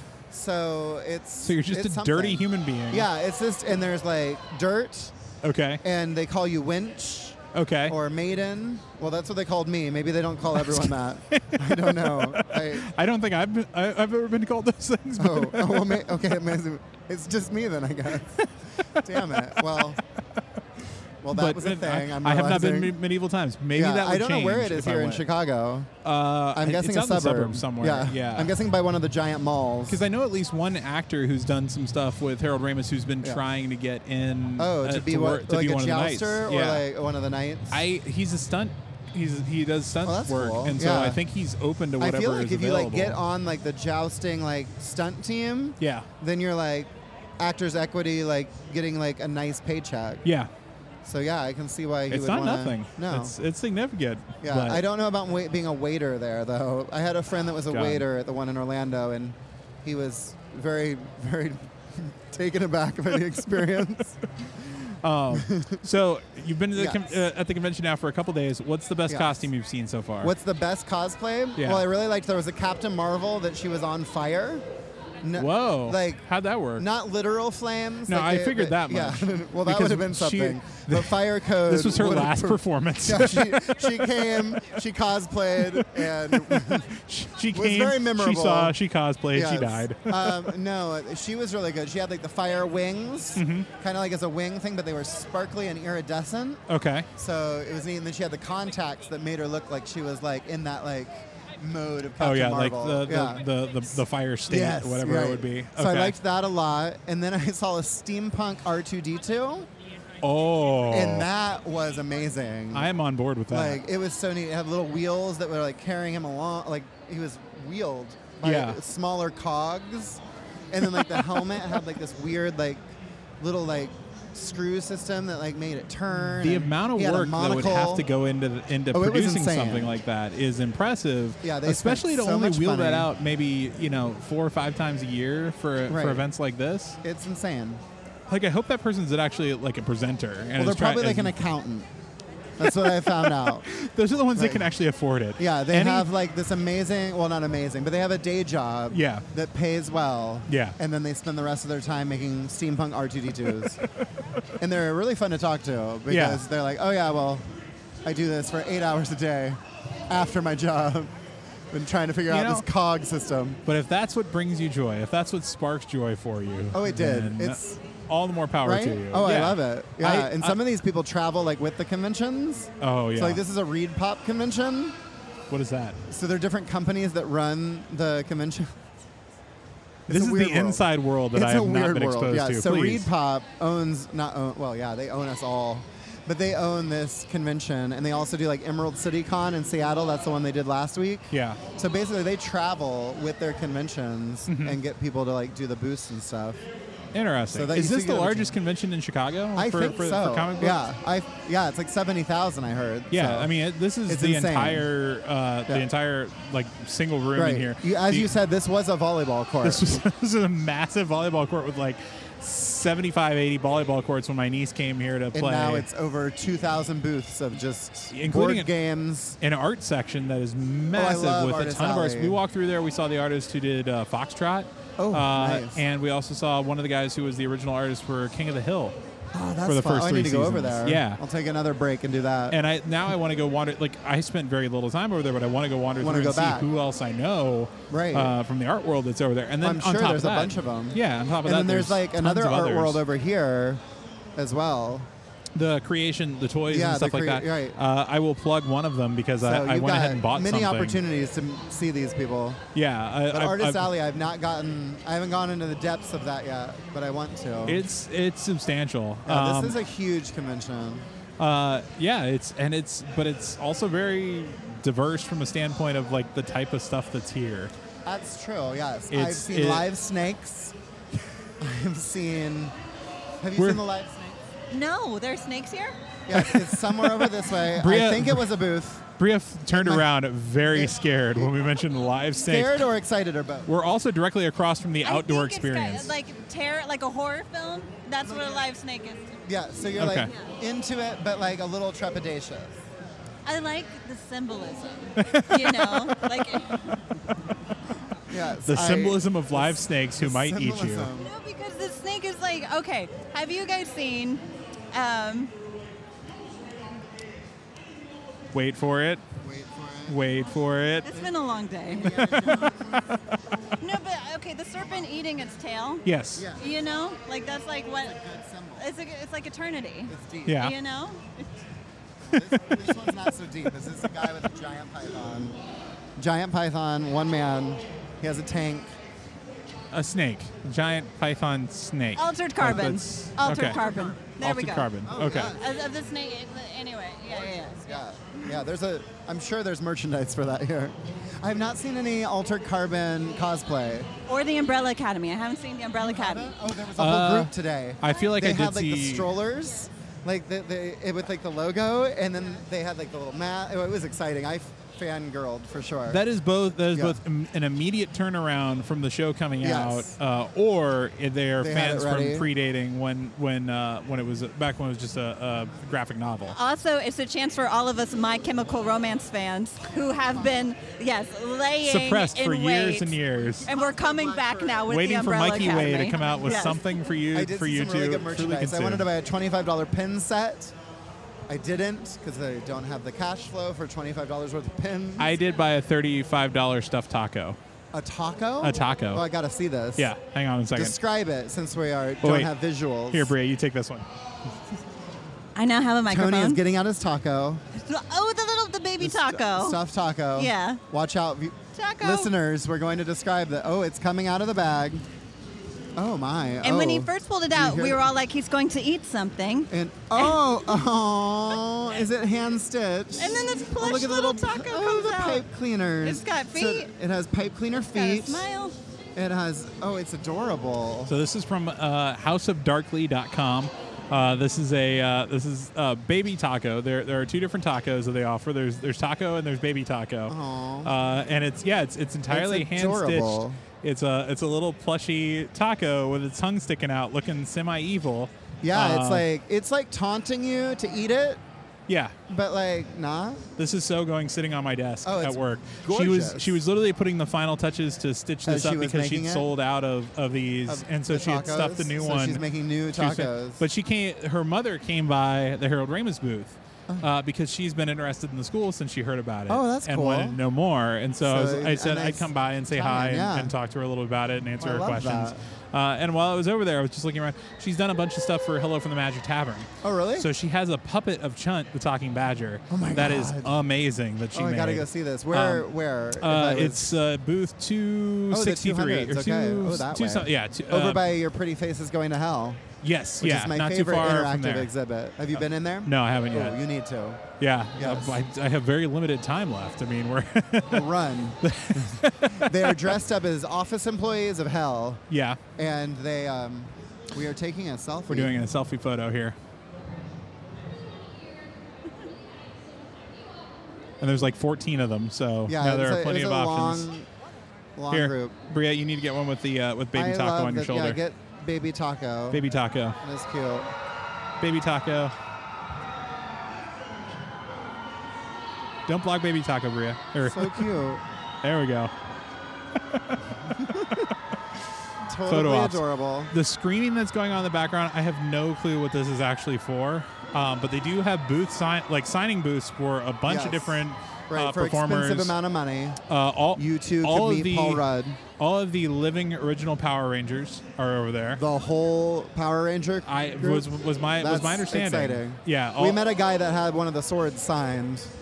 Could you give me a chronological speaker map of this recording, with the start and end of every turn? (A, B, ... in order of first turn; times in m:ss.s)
0:00.3-0:05.1 A
0:01.4-0:03.1 B
0:05.4-0:05.8 B
0:05.8-0:12.9 A
0:07.5-0:08.0 B
0:10.6-0:16.2 B
0:15.2-0:20.0 A
0:21.2-0:23.0 A
0:21.3-0:25.2 B
0:23.7-0:25.9 A
0:26.0-0:28.5 B
0:26.5-0:30.0 A
0:29.9-0:36.8 B
0:34.6-0:37.8 A
0:37.7-0:43.2 B
0:40.0-0:41.2 A
0:42.0-0:50.2 A
0:45.8-0:46.1 B
0:50.2-0:50.5 B
0:51.0-0:53.3 A
0:52.1-0:54.8 B
0:54.4-1:04.2 A
0:57.7-0:58.0 B
1:04.9-1:10.3 B
1:05.3-1:05.8 A
1:06.7-1:07.2 A
1:09.1-1:09.5 A
1:10.2-1:14.6 A
1:11.6-1:11.8 B
1:15.2-1:16.2 A
1:15.4-1:16.8 B
1:16.8-1:26.9 A
1:18.1-1:24.6 B
1:25.7-1:30.5 B
1:27.5-1:28.8 A
1:29.3-1:36.6 A
1:33.4-1:33.7 B
1:36.7-1:37.1 B
1:37.2-1:43.5 A
1:42.2-1:46.2 B
1:44.5-1:49.7 A
1:50.2-1:51.3 B
1:50.9-1:52.9 A
1:52.7-1:53.8 B
1:53.5-2:02.8 A
1:58.4-1:58.8 B
2:03.4-2:08.1 A
2:06.4-2:17.0 B
2:08.9-2:09.9 A
2:11.4-2:13.1 A
2:15.9-2:16.2 A
2:17.0-2:17.8 A
2:18.3-2:21.3 B
2:20.6-2:21.9 A
2:22.6-2:23.7 A
2:22.6-2:26.1 B
2:24.3-2:24.7 A
2:25.4-2:33.8 A
2:28.9-2:29.2 B
2:30.5-2:30.8 B
2:34.6-2:37.4 A
2:36.1-2:36.4 B
2:38.0-2:41.1 A
2:41.7-2:43.6 A
2:42.3-2:42.6 B
2:43.6-2:50.6 B
2:46.7-2:47.8 A
2:48.6-2:55.0 A
2:52.8-2:53.4 B
2:55.5-2:56.0 B
2:56.1-2:58.8 A
3:00.1-3:16.6 A
3:00.1-3:03.1 B
3:11.3-3:11.6 B
3:14.5-3:14.8 B
3:17.1-3:20.8 B
3:17.5-3:18.5 A
3:19.5-3:23.5 A
3:23.1-3:28.3 B
3:24.0-3:24.8 A
3:27.3-3:29.9 A
3:29.6-3:35.8 B
3:35.3-3:39.4 A
3:38.1-3:38.7 B
3:39.4-3:49.0 B
3:40.9-3:42.4 A
3:45.0-3:45.8 A
3:49.3-3:52.6 A
3:49.6-3:51.2 B
3:52.5-4:03.0 B
3:56.0-3:56.7 A
3:57.9-3:58.4 A
3:59.6-4:03.8 A
4:04.4-4:05.1 A
4:05.5-4:11.0 B
4:06.7-4:07.8 A
4:09.4-4:12.6 A
4:12.7-4:13.9 B
4:13.3-4:17.8 A
4:17.6-4:19.8 B
4:19.2-4:21.1 A
4:21.4-4:27.7 B
4:28.0-4:30.7 A
4:29.1-4:29.8 B
4:31.6-4:32.7 A
4:33.4-4:34.4 A
4:33.6-4:33.8 B
4:34.7-4:36.0 C
4:36.3-4:39.0 A
4:36.3-4:38.5 B
4:39.2-4:42.9 B
4:39.7-4:40.1 A
4:40.7-4:41.6 A
4:42.4-4:43.7 A
4:43.6-4:46.1 B
4:45.0-4:49.4 C
4:48.2-4:48.7 A
4:49.4-4:52.8 A
4:50.0-4:50.3 B
4:50.2-4:50.5 C
4:53.4-4:57.0 C
4:55.2-4:56.2 B
4:58.3-5:01.3 A
4:58.6-5:01.1 B
5:01.2-5:05.5 C
5:08.5-5:09.2 B
5:09.4-5:10.3 A
5:10.1-5:11.2 B
5:11.0-5:12.7 C
5:11.9-5:13.2 A
5:13.8-5:18.2 C
5:16.0-5:16.5 B
5:16.3-5:16.8 A
5:18.0-5:18.9 A
5:18.8-5:21.5 C
5:20.1-5:20.7 A
5:20.4-5:20.7 B
5:22.2-5:25.6 A
5:26.2-5:28.9 A
5:29.9-5:33.8 B
5:32.2-5:34.9 C
5:33.5-5:34.4 A
5:34.4-5:35.6 B
5:35.0-5:35.6 A
5:35.4-5:38.0 C
5:37.8-5:44.1 A
5:44.3-5:46.5 C
5:46.0-5:56.2 A
5:46.9-5:49.3 B
5:56.1-6:06.6 B
5:56.9-5:57.2 A
5:59.6-6:00.1 A
6:01.6-6:02.5 A
6:06.5-6:16.8 C
6:11.8-6:13.7 B
6:13.5-6:16.8 A
6:14.9-6:19.1 B
6:17.3-6:20.7 A
6:21.5-6:25.4 A
6:25.2-6:27.6 B
6:27.9-6:30.1 A
6:28.6-6:29.2 B
6:30.0-6:31.0 B
6:30.7-6:33.3 A
6:32.2-6:32.5 B
6:33.1-6:34.0 B
6:35.5-6:36.6 C
6:36.1-6:37.6 A
6:37.7-6:39.8 C
6:39.0-6:45.0 A
6:40.4-6:40.8 C
6:41.7-6:42.3 C
6:46.0-6:48.0 A
6:46.6-6:50.4 C
6:49.7-6:58.5 A
6:53.2-6:55.4 C
6:56.0-6:56.9 C
6:57.9-6:58.8 C
6:59.2-7:01.1 A
7:01.1-7:19.2 B
7:10.3-7:10.9 A
7:12.3-7:13.6 A
7:18.6-7:21.4 A
7:21.9-7:22.1 B
7:22.3-7:23.4 A
7:23.6-8:01.0 B
7:25.0-7:26.6 A
7:28.4-7:29.5 A
7:30.7-7:33.6 A
7:39.5-7:40.4 A
7:41.2-7:43.5 A
7:44.6-7:45.4 A
7:49.8-7:50.3 A
7:52.7-7:53.5 A
7:54.3-7:57.0 A
7:58.3-8:02.6 A
8:02.8-8:04.7 B
8:03.2-8:08.2 A
8:05.8-8:06.6 B
8:07.4-8:12.9 B
8:10.7-8:15.0 A
8:15.1-8:15.4 B
8:15.6-8:18.4 A
8:18.1-8:19.3 B
8:24.0-8:26.9 B
8:25.4-8:27.1 A
8:27.8-8:28.3 A
8:27.9-8:31.0 B
8:29.9-8:32.4 A
8:32.3-8:33.0 B
8:33.0-8:33.7 A
8:34.4-8:35.1 B
8:38.9-8:40.7 B
8:40.2-8:41.0 A
8:41.4-8:41.9 B
8:43.5-8:44.1 A
8:45.0-8:46.3 A
8:45.2-8:55.3 B
8:53.3-8:56.0 A
8:56.1-8:57.8 B
8:56.6-8:58.2 A
8:58.4-9:01.4 B
9:01.3-9:08.1 A
9:03.1-9:06.0 B